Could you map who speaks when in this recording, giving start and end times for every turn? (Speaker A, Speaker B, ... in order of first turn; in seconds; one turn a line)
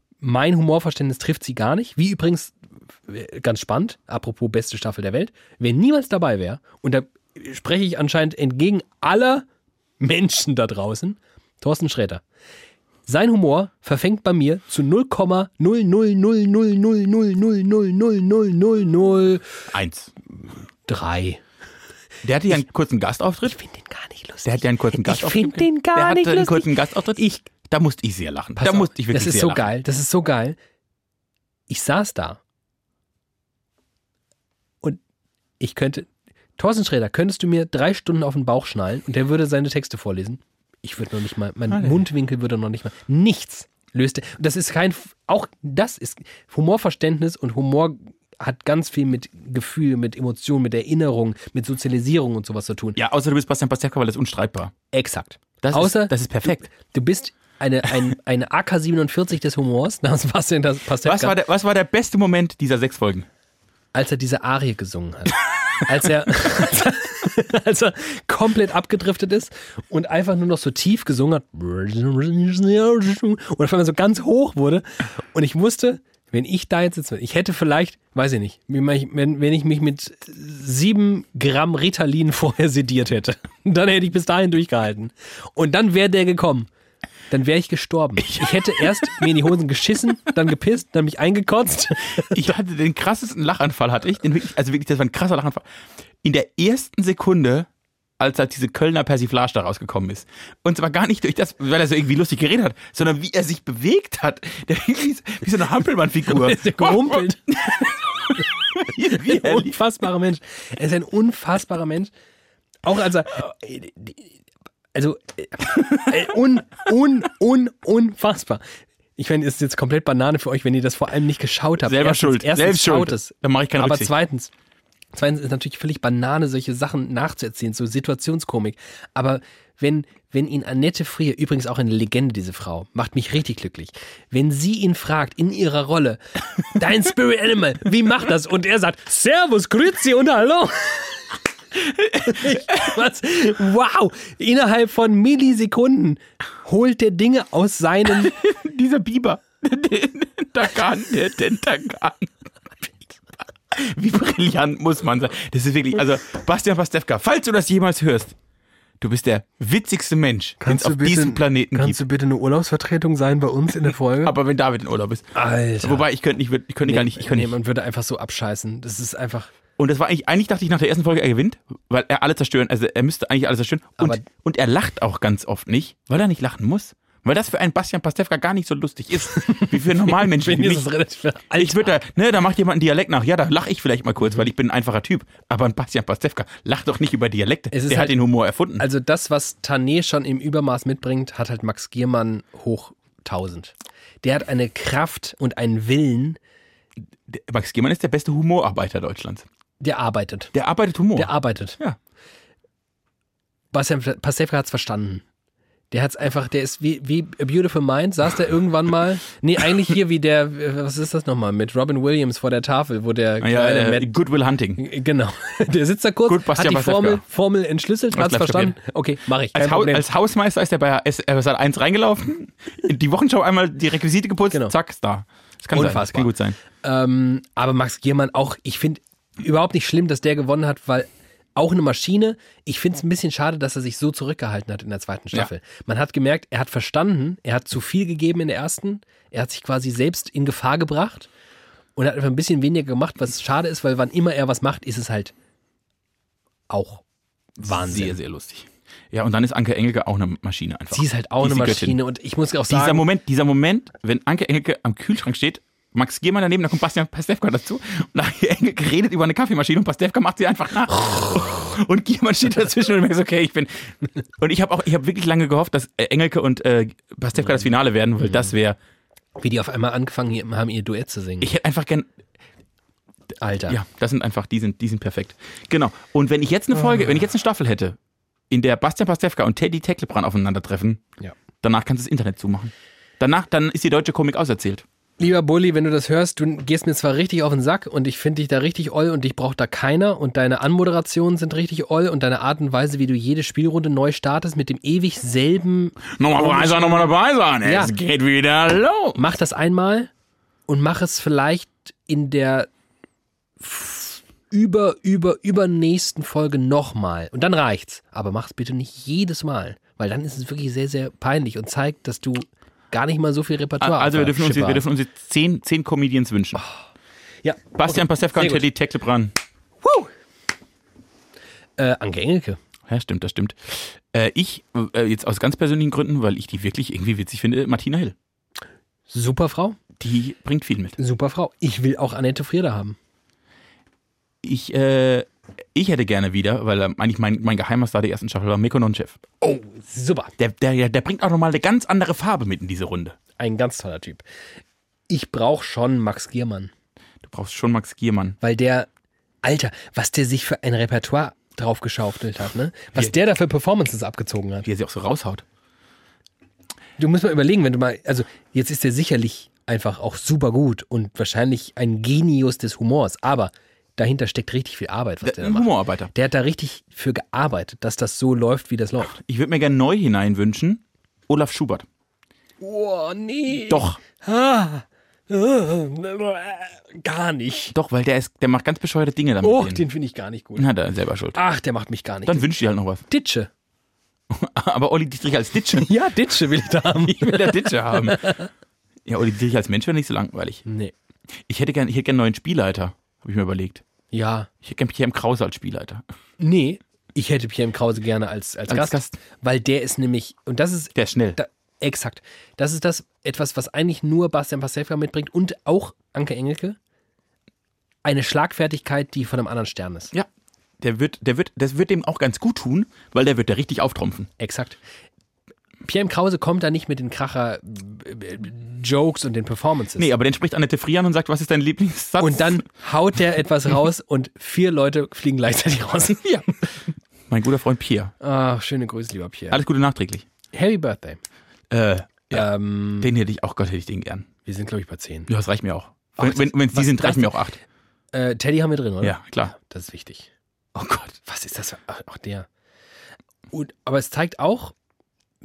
Speaker A: 0.2-2.5
Speaker A: 3.1-9.5
Speaker A: 10.0-12.2
Speaker A: 13.1-19.6
Speaker B: 19.7-20.1
Speaker A: 20.9-21.4
Speaker B: 22.2-23.6
Speaker A: 23.4-27.5
Speaker B: 24.4-29.7
Speaker A: 28.6-30.6
Speaker A: 31.7-32.4
Speaker A: 35.6-53.0
Speaker B: 41.7-42.0
Speaker B: 53.0-54.7
Speaker A: 54.9-61.4
Speaker B: 55.6-56.6
Speaker B: 61.0-63.3
Speaker A: 63.9-86.7
Speaker A: 87.3-92.5
Speaker B: 88.2-89.3
Speaker B: 92.2-95.6
Speaker B: 96.2-109.8
Speaker A: 106.3-108.4
Speaker A: 108.9-112.1
Speaker A: 112.8-114.3
Speaker A: 114.9-118.6
Speaker A: 119.2-124.5
Speaker B: 121.8-124.1
Speaker A: 125.1-141.4
Speaker A: 142.0-148.3
Speaker B: 142.3-142.6
Speaker B: 148.1-152.3
Speaker B: 153.7-158.3
Speaker B: 159.0-162.0
Speaker A: 160.6-164.3
Speaker B: 164.2-167.5
Speaker A: 165.3-166.1
Speaker A: 166.8-169.5
Speaker B: 169.8-180.9
Speaker A: 174.0-174.3
Speaker A: 179.3-182.0
Speaker B: 181.6-188.8
Speaker A: 187.7-188.2
Speaker A: 188.8-196.4
Speaker B: 197.3-199.5
Speaker A: 199.8-200.5
Speaker B: 200.5-202.0
Speaker A: 201.2-201.8
Speaker A: 203.7-205.2
Speaker A: 205.9-214.1
Speaker B: 213.4-214.8
Speaker A: 214.8-220.1
Speaker B: 216.3-217.2
Speaker B: 218.1-218.8
Speaker B: 219.5-226.6
Speaker A: 225.7-241.3
Speaker A: 242.0-245.3
Speaker A: 246.7-247.0
Speaker A: 247.6-248.2
Speaker B: 247.6-252.0
Speaker A: 250.9-253.1
Speaker B: 252.7-268.8
Speaker A: 269.4-271.5
Speaker B: 271.4-272.1
Speaker A: 273.4-273.8
Speaker B: 273.7-278.0
Speaker B: 278.5-281.0
Speaker B: 281.6-284.9
Speaker A: 285.2-297.9
Speaker B: 296.2-299.2
Speaker A: 299.2-300.1
Speaker A: 300.7-302.7
Speaker A: 303.6-314.9
Speaker B: 313.8-316.6
Speaker A: 317.4-318.7
Speaker B: 317.8-319.3
Speaker A: 319.8-320.1
Speaker A: 321.8-322.6
Speaker B: 322.9-328.1
Speaker A: 329.1-329.8
Speaker B: 330.0-331.0
Speaker A: 331.0-333.0
Speaker B: 334.4-339.2
Speaker A: 339.4-340.3
Speaker B: 340.4-343.2
Speaker A: 343.4-344.2
Speaker A: 345.1-346.7
Speaker B: 347.2-348.4
Speaker A: 348.4-348.9
Speaker A: 349.4-354.7
Speaker B: 354.6-355.4
Speaker A: 357.0-369.2
Speaker B: 365.2-366.1
Speaker B: 369.1-371.9
Speaker A: 372.6-377.8
Speaker B: 373.7-374.0
Speaker B: 377.7-379.9
Speaker A: 379.4-380.7
Speaker B: 380.6-381.4
Speaker A: 381.4-382.5
Speaker B: 382.3-383.0
Speaker A: 383.1-383.5
Speaker B: 384.3-385.9
Speaker A: 385.8-388.5
Speaker B: 387.0-388.4
Speaker B: 389.1-390.6
Speaker A: 390.7-390.9
Speaker B: 391.5-393.8
Speaker A: 394.1-394.5
Speaker B: 394.6-396.0
Speaker A: 396.4-406.8
Speaker B: 398.7-399.1
Speaker B: 400.9-401.4
Speaker A: 408.0-410.1
Speaker B: 410.8-414.3
Speaker A: 414.4-414.8
Speaker A: 415.8-420.1
Speaker B: 420.0-422.6
Speaker A: 422.2-426.2
Speaker B: 426.1-428.1
Speaker A: 428.2-429.6
Speaker B: 429.5-430.3
Speaker A: 430.5-431.2
Speaker B: 431.7-432.5
Speaker A: 432.3-433.1
Speaker B: 433.0-434.3
Speaker A: 434.4-435.3
Speaker B: 435.3-437.6
Speaker A: 436.2-437.4
Speaker A: 438.1-440.3
Speaker B: 439.0-439.5
Speaker B: 440.8-441.2
Speaker A: 441.2-442.5
Speaker A: 443.5-444.8